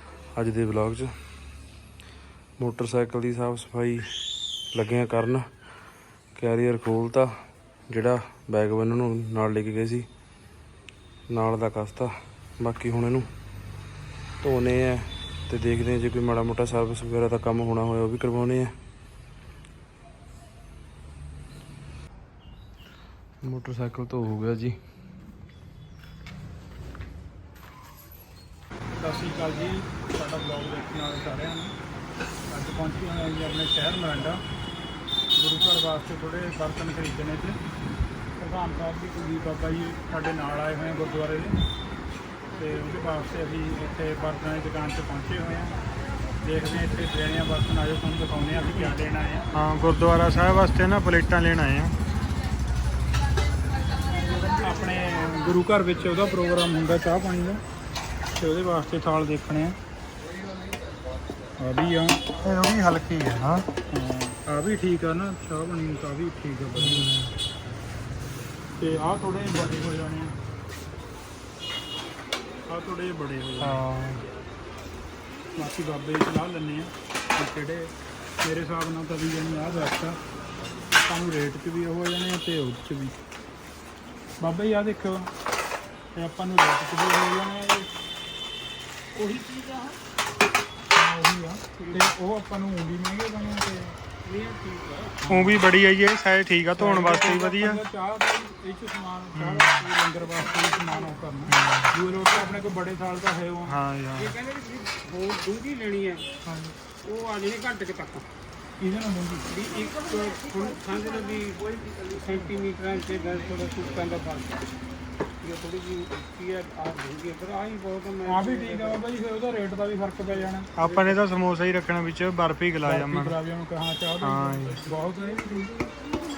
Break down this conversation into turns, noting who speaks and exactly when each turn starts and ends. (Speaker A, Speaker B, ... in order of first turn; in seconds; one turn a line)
Speaker A: 0.3-1.1
Speaker A: 2.6-4.1
Speaker A: 4.7-5.5
Speaker A: 6.3-7.3
Speaker A: 7.9-10.1
Speaker A: 11.3-13.3
Speaker A: 14.4-18.7
Speaker A: 23.4-24.8
Speaker B: 29.0-31.7
Speaker B: 32.5-34.4
Speaker B: 35.4-37.6
Speaker B: 38.4-41.6
Speaker B: 42.6-45.8
Speaker B: 46.4-49.5
Speaker C: 49.5-51.9
Speaker B: 54.5-57.6
Speaker B: 58.3-59.8
Speaker B: 61.6-62.2
Speaker C: 62.4-63.7
Speaker B: 63.9-67.1
Speaker C: 66.8-67.3
Speaker B: 68.8-70.3
Speaker B: 72.7-73.8
Speaker C: 73.6-74.3
Speaker B: 75.6-80.2
Speaker B: 81.0-83.2
Speaker B: 84.4-85.3
Speaker B: 86.2-87.9
Speaker D: 89.1-90.0
Speaker B: 90.9-94.1
Speaker D: 91.8-92.1
Speaker D: 94.2-95.2
Speaker B: 95.2-95.7
Speaker C: 95.3-97.8
Speaker B: 96.8-103.8
Speaker C: 99.3-99.9
Speaker C: 101.5-101.9
Speaker C: 103.7-104.3
Speaker D: 104.2-106.3
Speaker C: 106.5-106.7
Speaker D: 107.0-108.3
Speaker B: 108.8-109.5
Speaker D: 109.5-114.7
Speaker D: 115.4-119.0
Speaker B: 118.2-120.7
Speaker D: 120.8-121.2
Speaker C: 120.8-123.4
Speaker B: 122.8-125.9
Speaker C: 124.2-124.8